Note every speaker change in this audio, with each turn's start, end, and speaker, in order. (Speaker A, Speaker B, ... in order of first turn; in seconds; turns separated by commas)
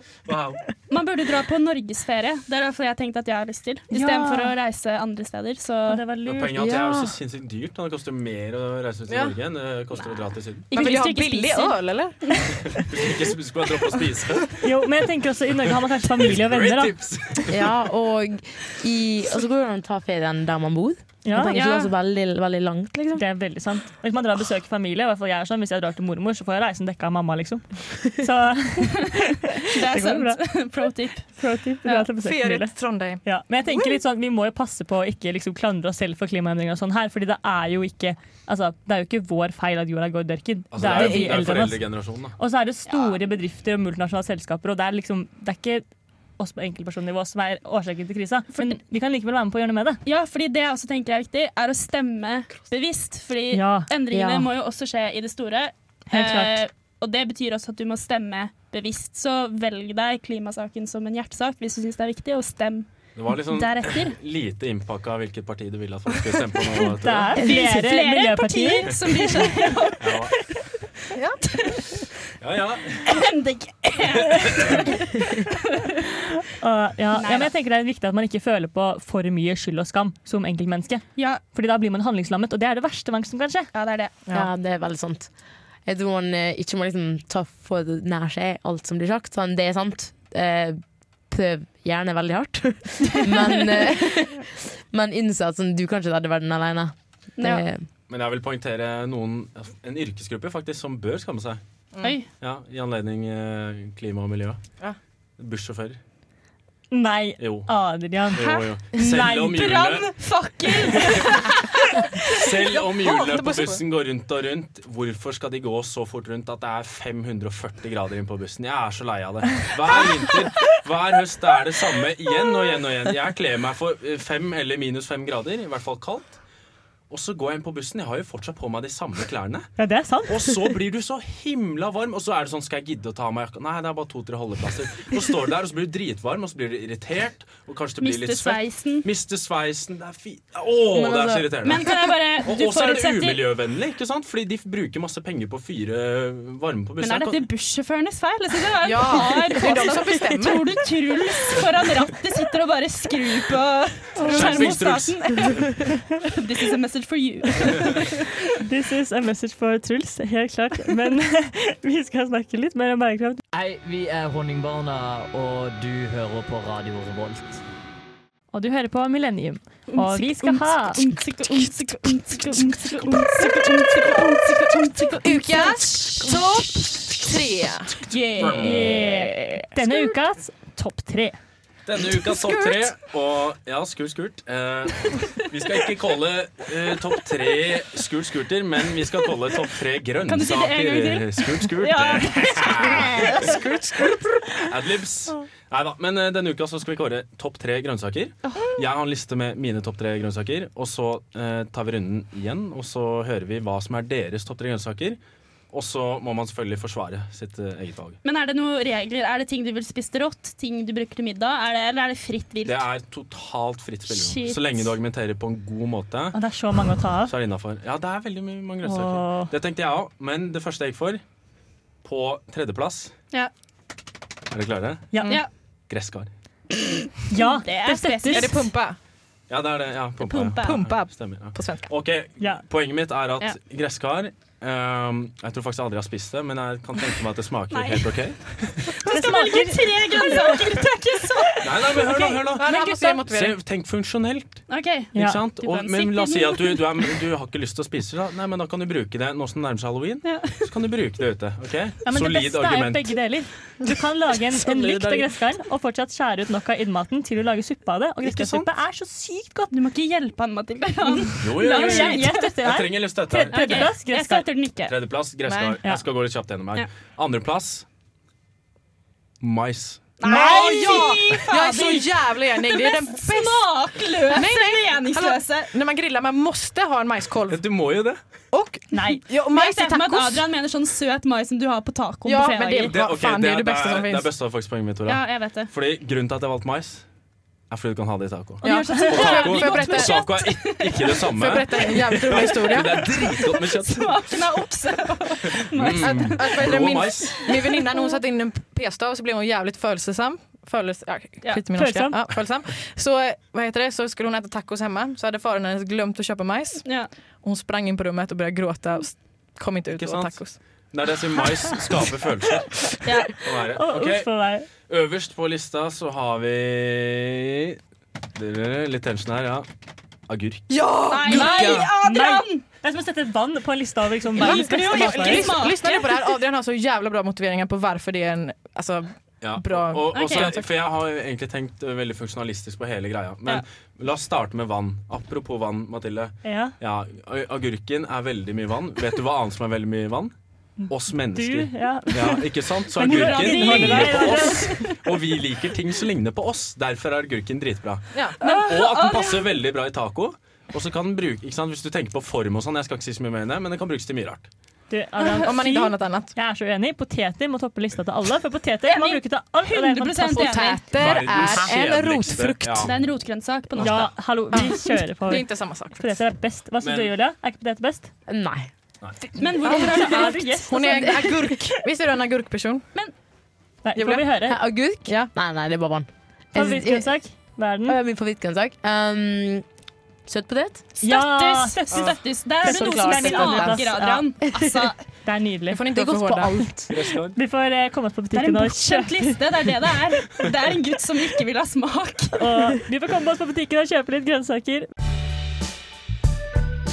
Speaker A: 0.3-0.6, Speaker B: 0.9-6.0, Speaker C: 3.9-4.5, Speaker C: 5.9-6.6, Speaker A: 6.2-10.7, Speaker D: 6.5-7.1, Speaker E: 9.1-9.3, Speaker B: 10.7-12.4, Speaker E: 10.7-12.2, Speaker A: 12.7-14.6, Speaker C: 14.6-16.9, Speaker A: 15.6-17.8, Speaker D: 17.5-23.2, Speaker C: 21.2-21.6, Speaker B: 21.5-21.9, Speaker C: 23.2-30.4, Speaker B: 29.0-31.3, Speaker C: 31.4-41.8, Speaker E: 32.1-33.2, Speaker A: 40.7-42.4, Speaker E: 40.9-41.6, Speaker C: 42.4-45.9, Speaker B: 42.9-43.1, Speaker C: 46.4-50.0, Speaker B: 48.5-48.8, Speaker B: 50.0-64.2, Speaker C: 53.5-53.9, Speaker D: 54.1-54.5, Speaker C: 56.1-56.6, Speaker A: 63.2-67.4, Speaker C: 67.0-69.5, Speaker B: 67.3-70.2, Speaker A: 70.0-70.3, Speaker A: 72.4-73.2, Speaker B: 73.1-76.0, Speaker A: 74.5-74.8, Speaker C: 76.5-83.7, Speaker B: 77.1-77.5, Speaker B: 81.2-81.4, Speaker B: 83.7-84.3, Speaker D: 84.3-85.3, Speaker D: 85.9-97.8, Speaker B: 97.4-97.7, Speaker A: 98.1-101.6, Speaker E: 101.9-102.2, Speaker B: 102.0-102.3, Speaker A: 102.4-104.6, Speaker A: 105.4-106.0, Speaker C: 106.9-109.5, Speaker A: 107.4-107.7, Speaker A: 108.3-110.1, Speaker B: 108.4-111.8, Speaker A: 110.7-111.3, Speaker A: 112.3-126.3, Speaker E: 112.7-113.8, Speaker A: 127.1-129.7, Speaker C: 129.8-130.5, Speaker A: 130.3-147.5, Speaker B: 138.0-139.1, Speaker D: 140.9-141.6, Speaker B: 141.6-143.5, Speaker B: 147.0-155.6, Speaker E: 148.8-150.7, Speaker C: 154.2-154.7, Speaker A: 154.2-155.7, Speaker B: 156.3-158.4, Speaker C: 158.6-163.4, Speaker F: 163.5-167.6, Speaker C: 168.5-171.1, Speaker B: 169.9-176.4, Speaker E: 173.1-174.2, Speaker E: 175.2-178.0, Speaker B: 178.1-179.7, Speaker A: 178.4-179.0, Speaker C: 178.5-181.4, Speaker A: 181.9-193.5, Speaker E: 182.2-182.9, Speaker B: 190.3-193.6, Speaker E: 192.8-194.5, Speaker A: 194.7-205.2, Speaker A: 205.7-208.2, Speaker B: 208.2-212.8, Speaker A: 212.7-216.4, Speaker C: 214.1-214.5, Speaker C: 216.3-217.3, Speaker A: 217.3-221.2, Speaker C: 218.8-219.5, Speaker A: 222.0-223.1, Speaker A: 224.5-225.2, Speaker C: 225.1-225.4, Speaker A: 225.9-226.3, Speaker C: 227.3-228.6, Speaker B: 227.3-228.7, Speaker E: 228.3-229.0, Speaker A: 229.5-238.9, Speaker B: 230.3-230.8, Speaker E: 230.6-231.9, Speaker B: 237.7-243.1, Speaker C: 239.1-240.6, Speaker A: 241.6-253.2, Speaker E: 242.6-243.6, Speaker B: 244.7-247.1, Speaker C: 245.1-245.4, Speaker B: 250.2-250.6, Speaker C: 252.1-259.7, Speaker E: 254.7-255.2, Speaker E: 258.2-258.7, Speaker B: 259.7-262.5, Speaker A: 261.4-263.9, Speaker C: 261.6-264.4, Speaker B: 263.5-265.0, Speaker A: 264.9-267.9, Speaker E: 265.4-265.8, Speaker A: 269.4-270.1, Speaker B: 270.2-275.7, Speaker E: 270.2-277.8, Speaker A: 277.5-278.2, Speaker E: 278.5-280.4, Speaker B: 278.9-282.9, Speaker C: 278.9-279.2, Speaker E: 282.2-284.3, Speaker A: 282.9-287.1, Speaker B: 285.1-285.7, Speaker A: 287.7-294.4, Speaker E: 288.6-290.2, Speaker B: 288.6-291.2, Speaker E: 291.3-293.2, Speaker B: 293.3-298.2, Speaker A: 295.4-297.5, Speaker E: 296.0-310.6, Speaker C: 301.6-302.2, Speaker B: 306.8-307.1, Speaker A: 309.9-312.9, Speaker E: 312.8-313.1, Speaker B: 313.1-313.3, Speaker A: 313.4-317.8, Speaker C: 313.8-314.7, Speaker A: 318.4-319.7, Speaker A: 320.3-320.7, Speaker E: 320.7-321.9, Speaker B: 321.1-322.6, Speaker A: 321.3-321.9, Speaker C: 321.3-325.7, Speaker E: 324.4-330.7, Speaker B: 324.4-326.3, Speaker A: 329.4-340.3, Speaker B: 330.1-330.6, Speaker C: 336.4-336.8, Speaker A: 340.9-354.5, Speaker C: 341.3-344.7, Speaker B: 343.0-344.9, Speaker B: 348.4-349.4, Speaker C: 354.9-360.8, Speaker E: 355.4-356.3, Speaker B: 358.9-361.4, Speaker E: 360.3-362.9, Speaker A: 360.9-363.0, Speaker B: 362.9-364.1, Speaker A: 363.8-364.1, Speaker C: 363.8-368.1, Speaker E: 364.5-366.2, Speaker A: 366.8-367.1, Speaker D: 368.3-368.7, Speaker E: 369.4-372.9, Speaker B: 369.4-370.6, Speaker C: 369.7-371.6, Speaker C: 373.9-374.6, Speaker E: 374.0-374.3, Speaker D: 374.5-377.1, Speaker E: 375.1-375.3, Speaker C: 376.5-378.0, Speaker D: 377.9-379.6, Speaker D: 380.3-380.9, Speaker B: 381.0-385.0, Speaker C: 381.0-384.2, Speaker E: 381.9-383.9, Speaker C: 385.2-385.8, Speaker E: 385.7-386.8, Speaker D: 385.9-386.9, Speaker A: 386.9-387.4, Speaker C: 387.4-389.4, Speaker B: 388.3-392.5, Speaker C: 392.4-394.9